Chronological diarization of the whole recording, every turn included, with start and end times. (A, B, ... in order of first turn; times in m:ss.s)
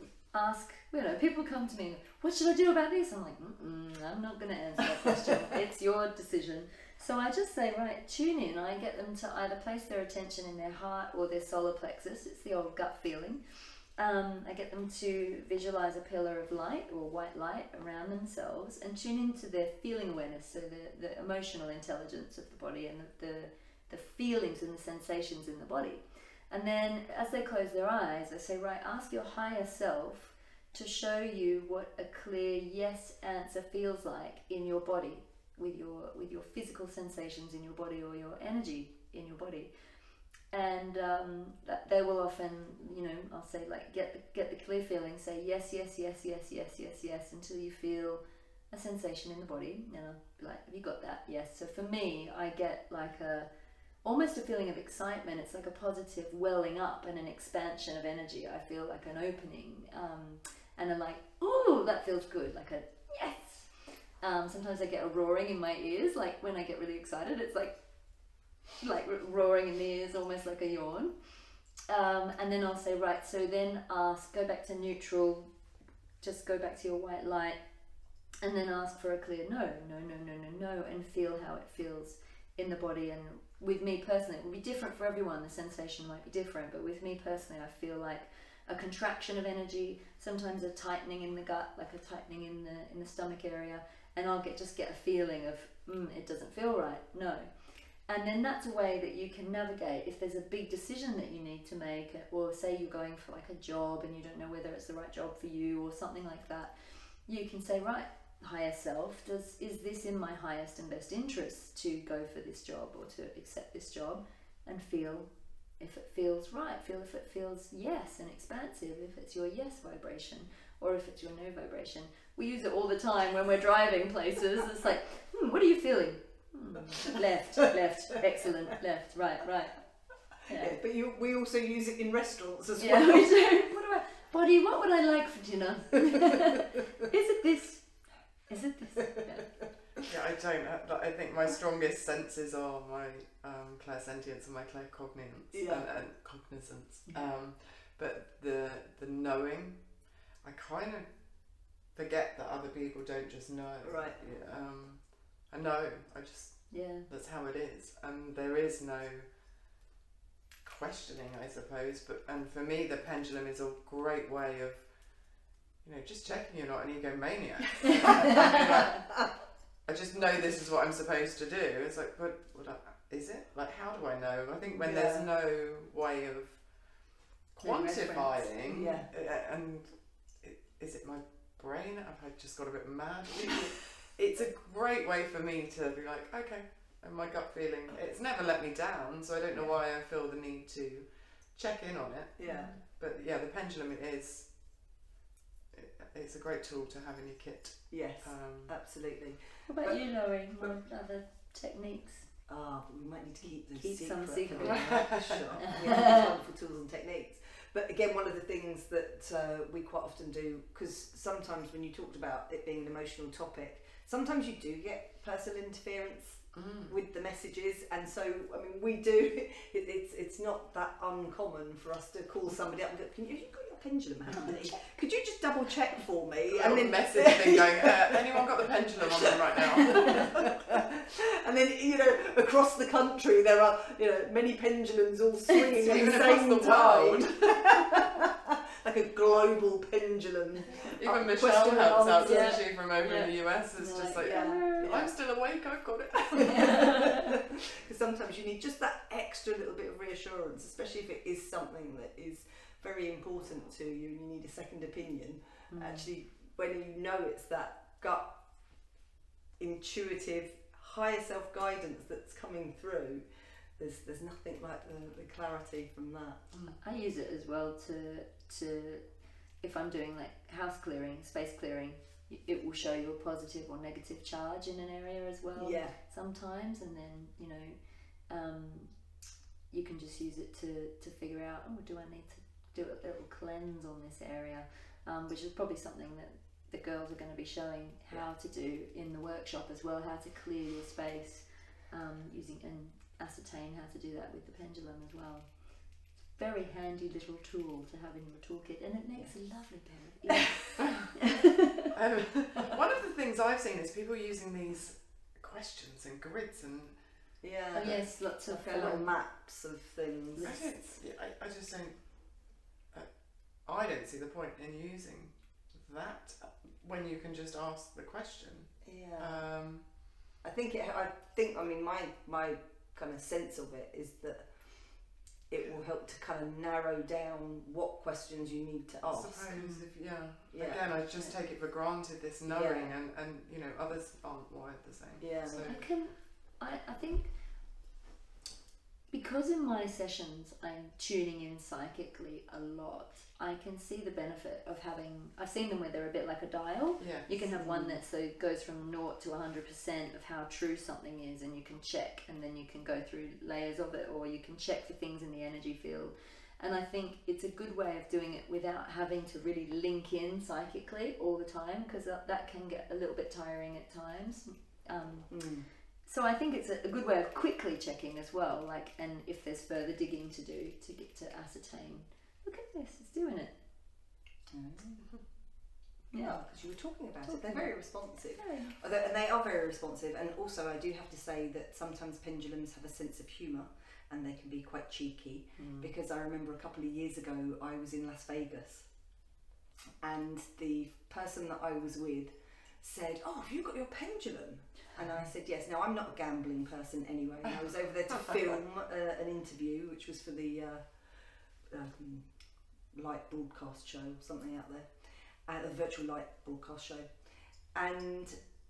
0:00.3-0:39.7 A
0:40.5-0:53.5 A
0:54.0-1:07.8 A
1:08.8-1:11.3 A
1:11.9-1:15.5 A
1:16.2-1:17.6 A
1:18.4-1:37.5 A
1:38.1-2:09.8 A
2:10.4-2:10.8 A
2:10.6-2:13.6 B
2:12.8-2:17.9 A
2:18.5-2:19.5 A
2:19.1-2:19.4 B
2:20.0-2:39.3 C
2:25.5-2:25.8 B
2:27.1-2:27.3 A
2:33.8-2:34.2 B
2:36.7-2:37.1 A
2:40.6-2:49.3 C
2:49.9-3:14.8 C
2:54.8-2:55.3 B
2:57.6-2:59.0 A
2:58.7-2:59.1 B
3:12.4-3:12.7 B
3:12.4-3:12.8 A
3:15.7-3:18.8 C
3:17.9-3:20.0 B
3:19.7-3:22.3 A
3:22.5-4:02.6 B
3:23.7-3:25.0 A
3:24.6-3:25.5 C
3:25.6-3:26.3 A
3:36.5-3:37.0 C
3:44.3-3:44.9 A
3:46.5-3:50.6 C
3:55.7-3:58.0 C
4:00.9-4:06.9 C
4:02.2-4:05.0 A
4:04.2-4:05.1 B
4:06.4-4:18.5 B
4:06.5-4:07.3 A
4:15.7-4:16.1 A
4:19.6-4:23.2 B
4:23.8-4:26.4 B
4:26.5-4:26.8 C
4:26.8-4:29.0 A
4:29.6-4:37.8 A
4:35.6-4:36.0 B
4:38.3-4:39.0 A
4:39.7-5:01.9 A
5:01.9-5:07.1 C
5:07.4-5:10.6 B
5:07.7-5:09.1 A
5:07.8-5:08.1 C
5:10.4-5:10.7 A
5:10.4-5:19.9 C
5:18.8-5:19.5 B
5:20.4-5:29.5 B
5:29.0-5:35.9 C
5:29.5-5:29.9 A
5:30.5-5:30.8 B
5:32.5-5:32.9 B
5:35.2-5:35.8 B
5:35.7-5:37.3 A
5:39.1-6:05.5 A
5:47.0-5:47.3 C
5:47.5-5:48.0 B
6:05.3-6:05.7 B
6:06.1-6:13.5 A
6:14.5-6:15.1 B
6:16.1-6:16.4 A
6:16.2-6:28.9 B
6:17.2-6:18.8 A
6:25.6-6:25.9 A
6:30.0-6:42.3 B
6:42.9-6:44.9 B
6:45.5-6:47.1 B
6:47.7-6:48.4 B